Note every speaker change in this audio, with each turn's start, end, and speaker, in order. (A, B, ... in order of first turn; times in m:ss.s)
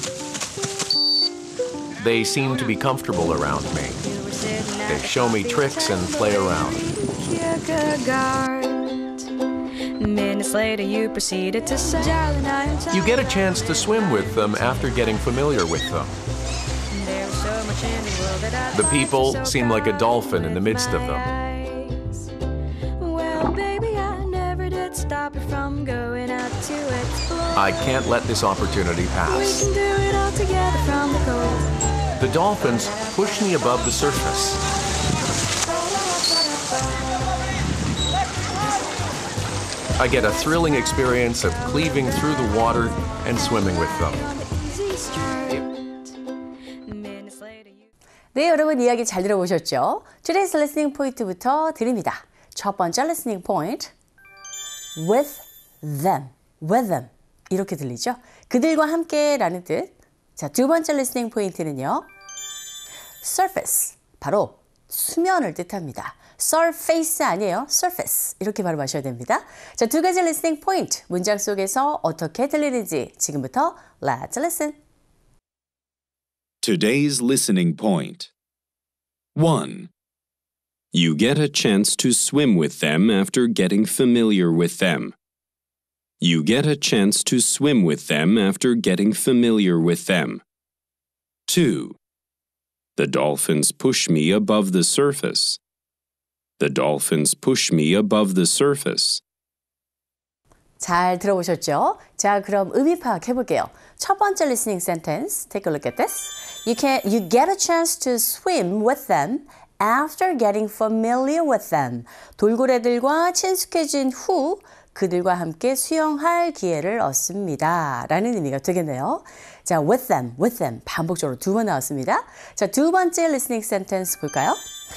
0:02.0-0:04.0 A
0:04.0-0:09.1 B
0:04.9-0:06.9 A
0:10.0-0:14.6 B
0:12.9-0:16.2 A
0:16.9-0:22.3 B
0:18.7-0:21.3 A
0:23.0-0:27.8 B
0:27.6-0:29.7 A
0:29.3-0:31.7 B
0:32.2-0:34.6 A
0:40.0-0:44.2 A
0:44.2-0:45.9 B
0:46.9-0:47.9 B
0:48.3-0:53.9 C
0:55.0-1:02.1 C
1:03.2-1:14.8 C
1:16.6-1:18.3 D
1:19.4-1:19.9 D
1:20.9-1:25.1 D
1:26.2-1:30.4 D
1:31.5-1:32.0 D
1:33.0-1:35.6 D
1:36.6-1:39.2 D
1:40.8-2:04.6 C